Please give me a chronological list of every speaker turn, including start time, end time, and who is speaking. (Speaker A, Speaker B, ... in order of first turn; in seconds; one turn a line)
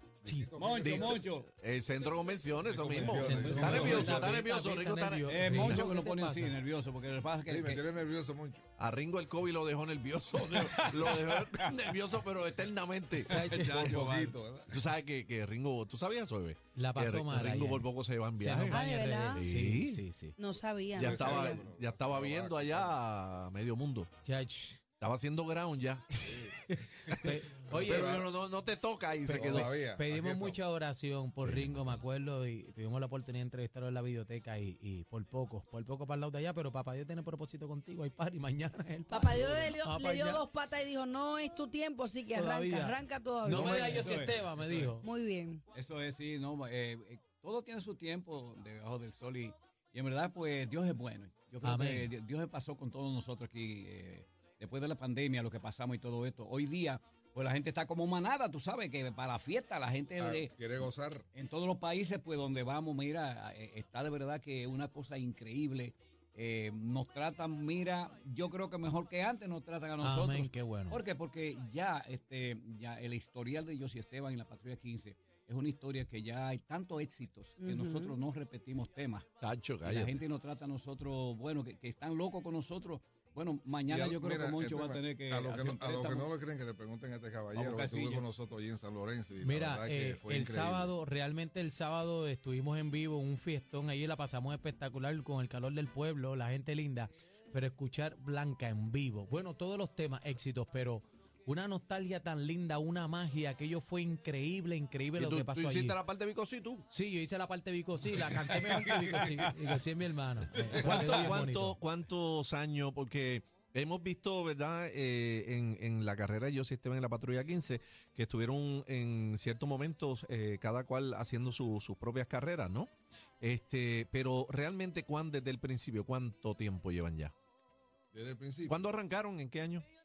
Speaker A: 0.2-1.2
Speaker B: 0.2-0.5
Speaker C: 0.6-1.5
Speaker D: 0.8-5.9
Speaker A: 2.7-4.4
Speaker C: 2.9-4.3
Speaker B: 3.3-6.6
Speaker C: 5.3-7.8
Speaker A: 7.5-8.7
Speaker D: 8.8-13.3
Speaker C: 10.5-12.0
Speaker B: 13.3-13.9
Speaker C: 13.3-14.4
Speaker A: 13.4-14.9
Speaker D: 14.7-18.9
Speaker B: 16.8-20.4
Speaker E: 18.7-19.4
Speaker D: 19.4-20.0
Speaker E: 20.4-21.6
Speaker A: 20.9-23.0
Speaker D: 21.0-24.1
Speaker B: 24.2-24.8
Speaker D: 25.0-26.1
Speaker B: 26.1-28.2
Speaker A: 26.2-28.3
Speaker D: 27.3-29.7
Speaker B: 29.2-40.4
Speaker A: 29.3-30.6
Speaker D: 31.4-31.8
Speaker E: 39.1-44.1
Speaker B: 42.4-45.0
Speaker C: 43.6-44.9
Speaker E: 45.0-45.6
Speaker C: 45.7-60.8
Speaker B: 51.6-52.1
Speaker A: 60.2-61.3
Speaker C: 61.3-79.3
Speaker B: 70.0-71.0
Speaker E: 77.6-78.2
Speaker D: 79.4-80.2
Speaker C: 79.8-86.3
Speaker A: 83.9-90.9
Speaker C: 87.5-88.3
Speaker B: 89.4-106.0
Speaker D: 105.2-106.9
Speaker B: 106.9-111.8
Speaker C: 108.4-109.5
Speaker C: 110.7-111.4
Speaker D: 110.8-127.3
Speaker A: 128.1-128.8
Speaker D: 128.7-129.8